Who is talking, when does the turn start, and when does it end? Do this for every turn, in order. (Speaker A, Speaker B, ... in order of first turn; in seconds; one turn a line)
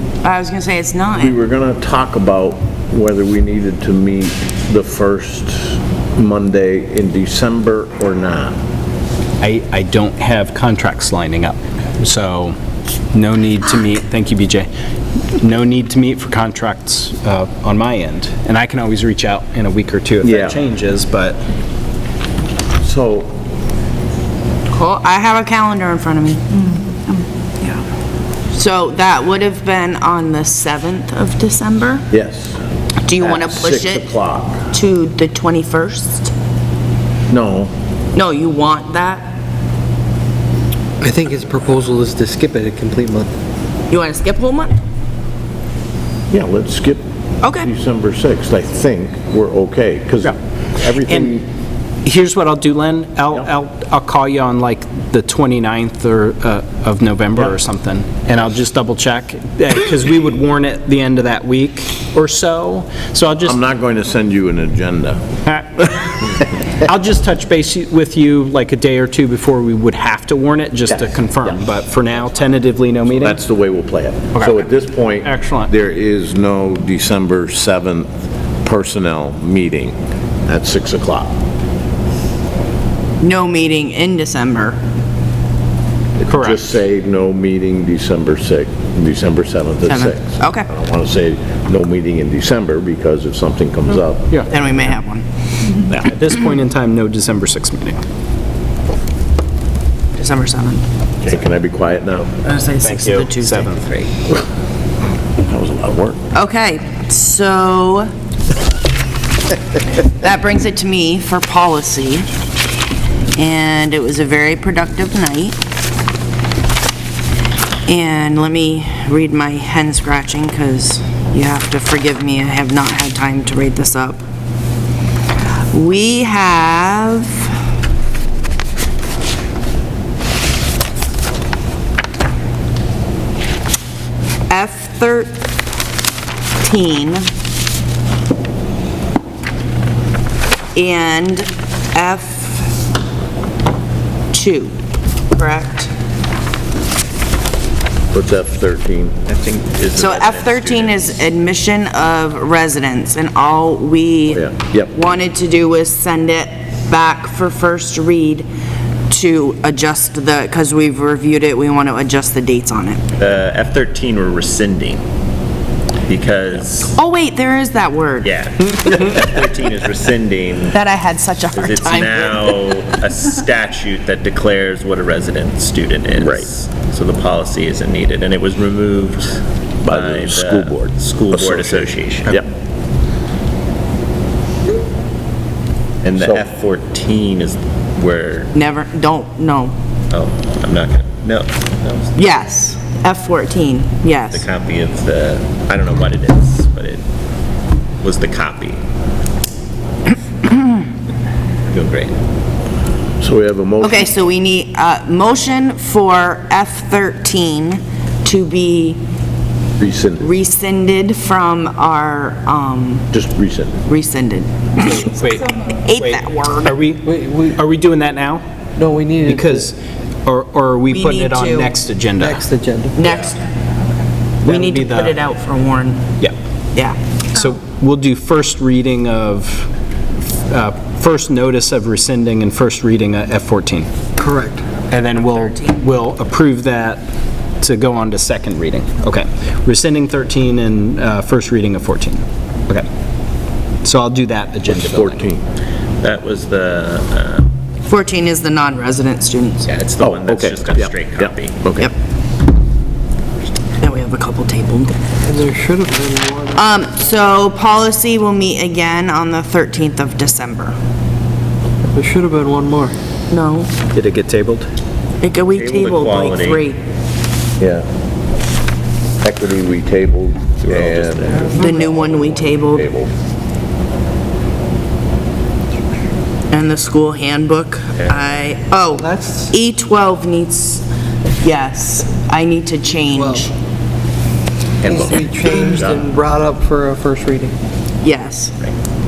Speaker A: 0.2-1.4
Speaker B: 1.2-8.6
Speaker C: 9.4-12.5
Speaker C: 13.1-14.7
Speaker C: 15.4-21.4
Speaker B: 20.2-20.6
Speaker B: 22.8-23.3
Speaker A: 24.7-26.6
Speaker A: 28.5-32.0
Speaker B: 32.1-32.6
Speaker A: 33.0-34.1
Speaker B: 33.2-34.6
Speaker A: 34.7-36.3
Speaker B: 37.3-37.7
Speaker A: 38.1-39.3
Speaker D: 41.0-43.3
Speaker A: 43.9-44.7
Speaker B: 46.3-47.0
Speaker A: 47.4-47.7
Speaker B: 47.6-51.4
Speaker C: 51.1-51.3
Speaker C: 52.0-63.6
Speaker B: 63.4-65.2
Speaker C: 65.5-73.4
Speaker B: 73.1-78.1
Speaker C: 74.3-74.7
Speaker C: 75.2-75.7
Speaker B: 78.6-80.0
Speaker B: 80.5-81.3
Speaker A: 83.2-84.8
Speaker B: 86.2-94.3
Speaker C: 86.3-86.6
Speaker A: 89.9-90.7
Speaker A: 94.5-95.9
Speaker C: 95.9-98.0
Speaker A: 100.2-100.8
Speaker B: 101.2-102.3
Speaker A: 102.4-103.8
Speaker C: 102.8-103.8
Speaker B: 105.4-106.2
Speaker A: 106.3-108.1
Speaker A: 110.0-112.3
Speaker A: 113.3-115.6
Speaker A: 117.8-124.2
Speaker A: 125.7-127.5
Speaker A: 134.5-135.4
Speaker A: 136.6-137.3
Speaker A: 140.7-142.7
Speaker A: 144.3-144.8
Speaker A: 145.3-145.9
Speaker B: 148.1-149.1
Speaker E: 149.2-151.2
Speaker A: 149.9-158.5
Speaker B: 154.3-154.9
Speaker A: 159.1-163.0
Speaker E: 163.2-165.0
Speaker E: 166.1-166.9
Speaker A: 166.9-168.3
Speaker E: 168.2-170.8
Speaker A: 170.7-172.5
Speaker E: 171.5-182.4
Speaker B: 176.2-176.5
Speaker B: 179.8-182.5
Speaker B: 186.0-186.4
Speaker E: 186.1-188.5
Speaker A: 188.5-189.7
Speaker E: 190.1-192.2
Speaker A: 192.2-194.4
Speaker E: 194.3-197.0
Speaker E: 198.0-198.8
Speaker E: 201.7-202.1
Speaker B: 203.2-204.1
Speaker A: 203.8-209.0
Speaker B: 209.8-210.2
Speaker A: 210.2-213.0
Speaker B: 213.1-213.7
Speaker A: 213.8-216.7
Speaker C: 214.8-218.4
Speaker D: 217.1-217.6
Speaker D: 218.8-219.6
Speaker C: 219.2-222.4
Speaker A: 220.9-221.7
Speaker D: 222.2-222.9
Speaker A: 222.9-223.4
Speaker C: 224.4-225.2
Speaker A: 224.4-226.0
Speaker C: 227.3-229.7
Speaker C: 230.5-233.9
Speaker D: 234.2-234.7
Speaker C: 234.8-237.1
Speaker A: 235.4-235.8
Speaker C: 237.6-242.8
Speaker C: 243.8-245.2
Speaker B: 244.7-245.4
Speaker E: 246.0-247.5
Speaker A: 247.8-249.6
Speaker E: 249.6-251.5
Speaker B: 250.0-251.9
Speaker A: 253.8-255.0
Speaker D: 255.2-256.6
Speaker A: 256.6-260.7
Speaker D: 261.9-262.9
Speaker A: 263.3-263.7
Speaker C: 263.9-264.7
Speaker A: 265.2-266.8
Speaker E: 265.5-266.6
Speaker B: 267.6-267.9
Speaker B: 269.2-273.1
Speaker E: 270.6-271.5
Speaker D: 271.4-271.8
Speaker A: 271.5-272.9
Speaker A: 276.5-280.8
Speaker D: 278.9-279.5
Speaker A: 281.4-283.5
Speaker D: 283.1-283.4
Speaker E: 284.8-286.0
Speaker D: 284.8-287.6
Speaker A: 288.0-288.6